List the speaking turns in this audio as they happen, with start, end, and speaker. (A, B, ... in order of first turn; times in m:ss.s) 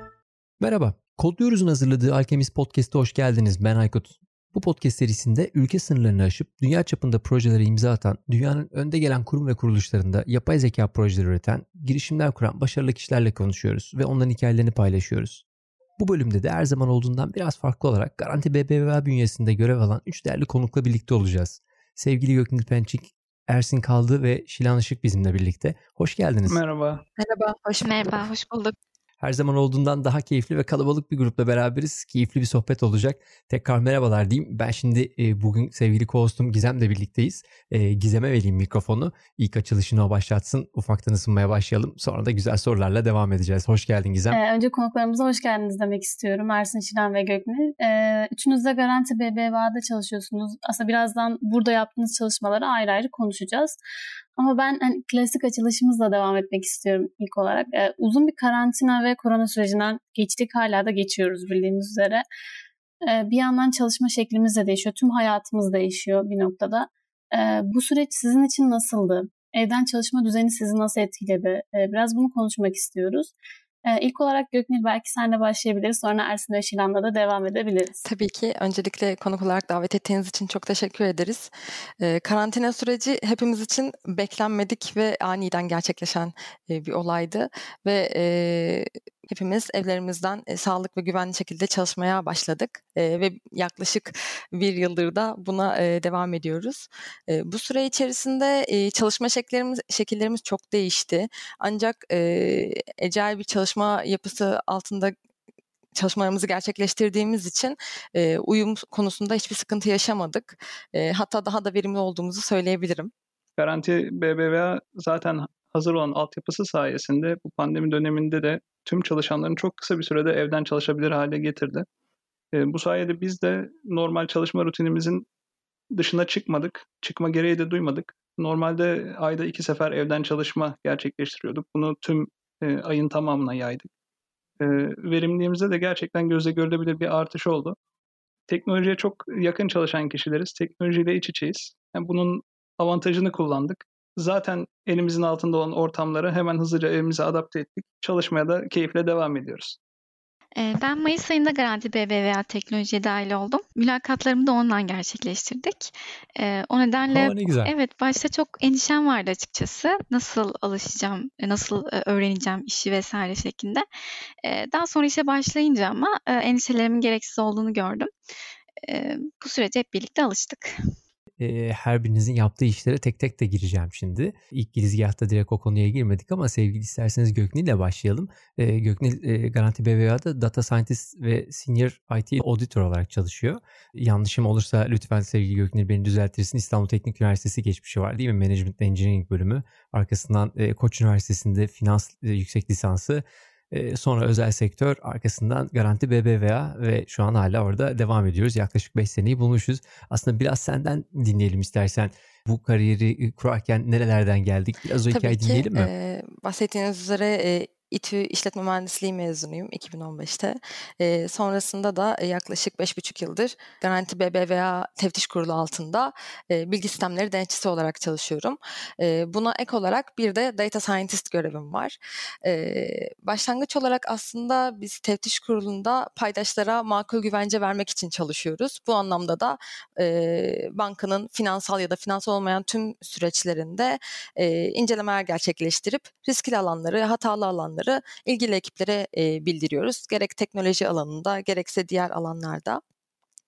0:00.6-0:15.4 A
0:16.0-0:26.6 A
0:26.5-0:27.0 B
0:27.2-0:28.3 C
0:27.8-0:28.7 D
0:29.2-0:44.4 A
0:44.3-0:53.8 E
0:54.4-1:02.2 E
1:03.0-1:13.3 E
1:13.8-1:18.0 E
1:18.0-1:45.1 C
1:46.0-1:53.1 C
1:53.6-2:01.8 B
2:02.5-2:05.3 B
2:05.9-2:13.9 B
2:14.6-2:17.8 B
2:18.5-2:29.8 B
2:30.6-2:43.8 D
2:37.1-2:37.7 A
2:44.4-2:48.1 D
2:48.8-2:50.7 D
2:51.4-3:25.9 A
3:25.1-4:02.8 C